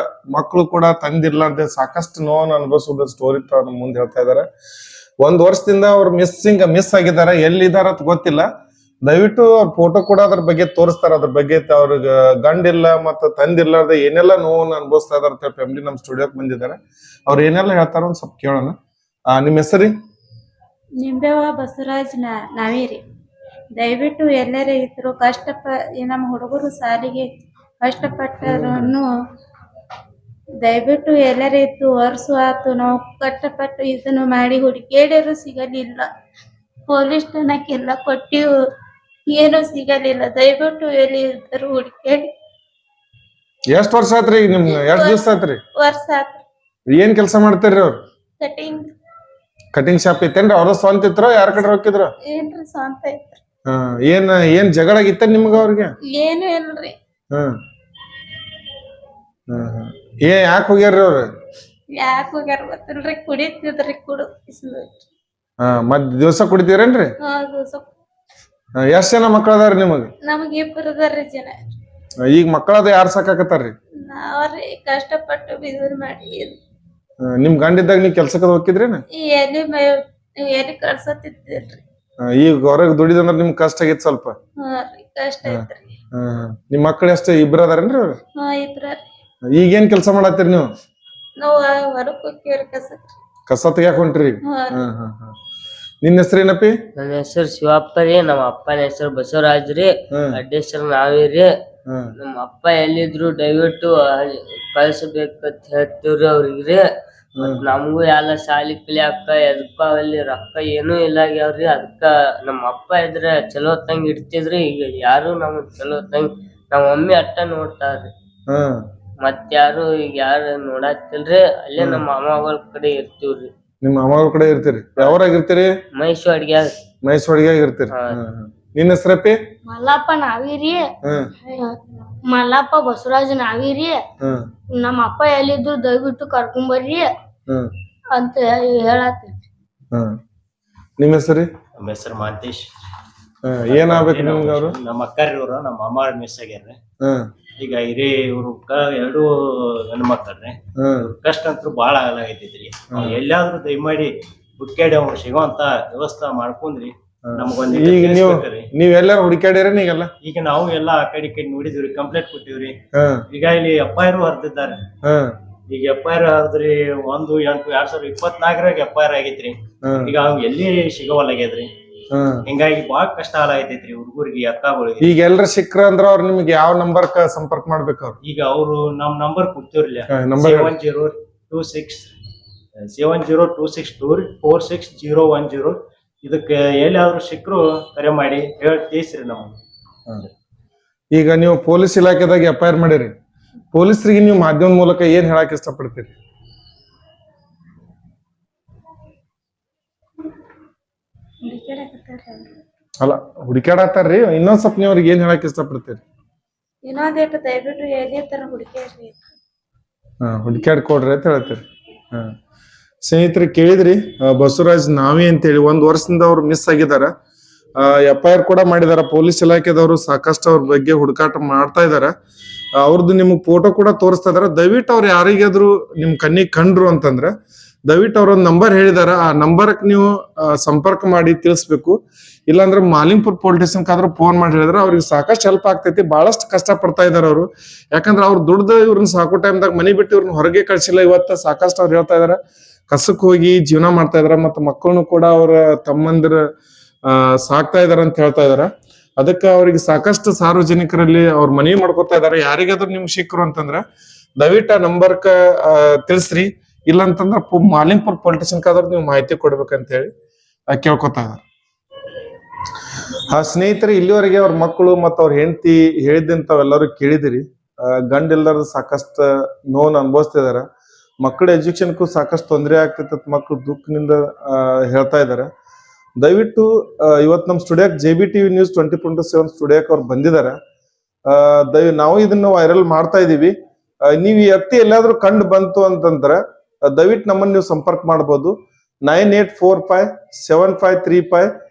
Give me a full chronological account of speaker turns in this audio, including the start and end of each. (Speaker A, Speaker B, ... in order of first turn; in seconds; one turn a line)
Speaker A: 0.3-4.5
Speaker A: 5.2-8.5
Speaker A: 9.1-16.8
Speaker A: 17.3-18.8
Speaker A: 19.4-19.9
Speaker B: 21.0-23.0
Speaker B: 23.7-29.1
Speaker A: 28.5-28.9
Speaker B: 30.6-36.1
Speaker B: 36.9-38.5
Speaker B: 39.3-42.3
Speaker A: 43.7-45.6
Speaker B: 44.7-46.4
Speaker A: 47.0-48.0
Speaker B: 48.4-48.9
Speaker A: 49.8-52.1
Speaker B: 52.2-53.4
Speaker A: 53.7-55.9
Speaker B: 56.0-57.0
Speaker A: 59.5-61.3
Speaker B: 61.9-65.0
Speaker A: 65.6-67.1
Speaker B: 67.2-67.9
Speaker A: 68.8-70.1
Speaker B: 70.2-71.8
Speaker A: 72.3-73.7
Speaker B: 74.0-76.6
Speaker A: 77.3-79.0
Speaker B: 79.1-81.8
Speaker A: 82.2-84.3
Speaker B: 84.6-85.9
Speaker A: 86.2-88.2
Speaker B: 88.3-89.1
Speaker A: 89.5-90.7
Speaker B: 91.4-93.1
Speaker A: 93.5-95.3
Speaker B: 94.4-94.8
Speaker A: 96.0-96.8
Speaker C: 97.0-101.5
Speaker A: 100.1-100.4
Speaker A: 101.9-102.1
Speaker C: 102.2-106.8
Speaker A: 107.4-107.6
Speaker C: 107.4-118.1
Speaker A: 118.5-118.8
Speaker C: 119.2-123.5
Speaker A: 121.8-122.0
Speaker A: 123.8-125.8
Speaker C: 126.0-126.7
Speaker A: 127.0-129.4
Speaker D: 129.7-130.9
Speaker A: 131.1-131.3
Speaker D: 132.3-134.0
Speaker D: 134.8-137.1
Speaker D: 138.1-139.4
Speaker A: 139.9-140.2
Speaker A: 141.0-141.5
Speaker E: 141.8-142.7
Speaker A: 143.4-144.8
Speaker E: 143.7-146.8
Speaker A: 147.0-147.3
Speaker E: 147.6-158.7
Speaker A: 150.8-151.1
Speaker A: 157.3-160.1
Speaker E: 160.2-162.8
Speaker A: 162.9-163.2
Speaker E: 163.3-164.9
Speaker A: 165.0-165.3
Speaker E: 165.7-171.7
Speaker A: 169.8-170.1
Speaker A: 172.1-172.4
Speaker E: 172.4-175.2
Speaker A: 175.0-178.2
Speaker E: 178.2-182.1
Speaker A: 180.1-180.7
Speaker E: 182.9-189.6
Speaker A: 191.1-193.1
Speaker A: 193.7-196.1
Speaker B: 201.4-202.6
Speaker A: 203.0-206.0
Speaker B: 206.8-209.2
Speaker A: 210.2-211.6
Speaker A: 213.0-217.1
Speaker A: 217.8-222.1
Speaker A: 222.8-227.3
Speaker A: 227.9-232.0
Speaker A: 232.5-242.4
Speaker A: 242.9-246.4
Speaker A: 247.1-253.8
Speaker A: 254.4-260.1
Speaker A: 260.7-261.4
Speaker A: 263.3-270.7
Speaker A: 271.2-275.5
Speaker A: 276.2-280.6
Speaker A: 281.3-283.5
Speaker A: 284.1-291.5